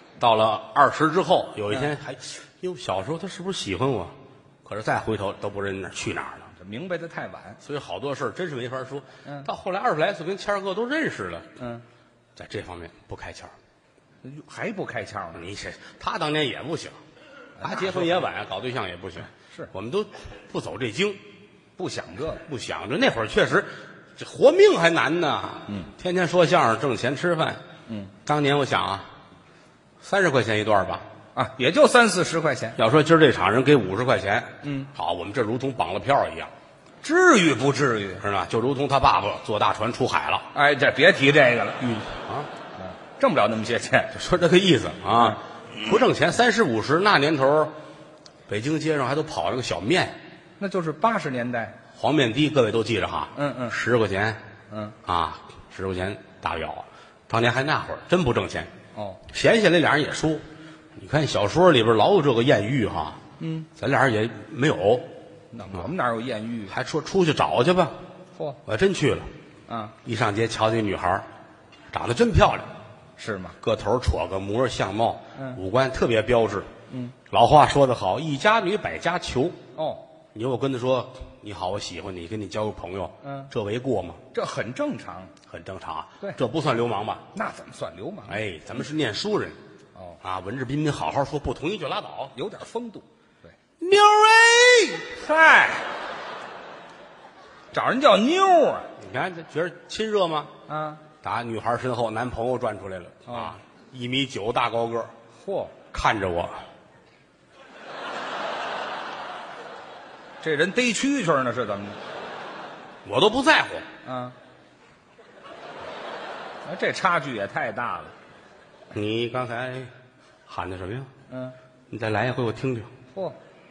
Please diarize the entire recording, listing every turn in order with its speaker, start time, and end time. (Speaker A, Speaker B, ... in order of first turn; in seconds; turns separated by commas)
Speaker A: 0.2-6.5, Speaker B: 6.5-7.6, Speaker A: 7.6-11.5, Speaker B: 11.6-11.8, Speaker A: 12.3-13.5, Speaker B: 14.2-15.4, Speaker A: 15.3-17.0, Speaker B: 17.6-18.2, Speaker A: 17.6-21.2, Speaker B: 21.8-22.4, Speaker A: 22.4-27.6, Speaker B: 27.9-28.1, Speaker A: 28.2-29.1, Speaker A: 30.0-31.1, Speaker B: 31.3-32.8, Speaker A: 32.8-36.5, Speaker B: 34.6-34.9, Speaker B: 37.0-38.2, Speaker A: 38.2-40.5, Speaker B: 40.5-41.8, Speaker A: 41.8-42.5, Speaker B: 42.8-44.1, Speaker A: 44.1-47.7, Speaker A: 48.5-50.2, Speaker B: 50.6-51.8, Speaker A: 51.9-54.4, Speaker B: 53.3-53.8, Speaker B: 54.7-55.0, Speaker A: 55.0-58.7, Speaker B: 58.9-59.2, Speaker A: 59.3-60.4, Speaker A: 61.0-63.2, Speaker B: 63.4-63.7, Speaker A: 63.8-65.1, Speaker B: 65.5-66.7, Speaker A: 66.7-68.0, Speaker A: 68.6-69.3, Speaker B: 69.7-69.9, Speaker A: 70.0-71.3, Speaker A: 71.9-72.7, Speaker B: 73.2-73.6, Speaker A: 73.6-76.7, Speaker B: 76.9-77.1, Speaker A: 77.3-79.6, Speaker B: 79.7-80.0, Speaker A: 80.3-84.2, Speaker B: 83.2-83.5, Speaker B: 84.3-85.3, Speaker A: 85.5-87.2, Speaker B: 87.3-88.4, Speaker A: 88.3-89.6, Speaker A: 90.2-92.3, Speaker B: 92.3-93.5, Speaker A: 93.8-95.1, Speaker B: 95.1-95.9, Speaker B: 97.7-98.9, Speaker A: 99.0-100.5, Speaker B: 100.7-101.0, Speaker A: 101.2-105.1, Speaker B: 103.3-103.5, Speaker B: 105.4-105.7, Speaker A: 105.9-106.6, Speaker B: 110.4-112.0, Speaker A: 113.0-113.9, Speaker B: 114.0-114.3, Speaker B: 116.6-118.1, Speaker A: 118.9-119.9, Speaker A: 120.5-121.1, Speaker B: 121.3-121.5, Speaker A: 121.9-122.9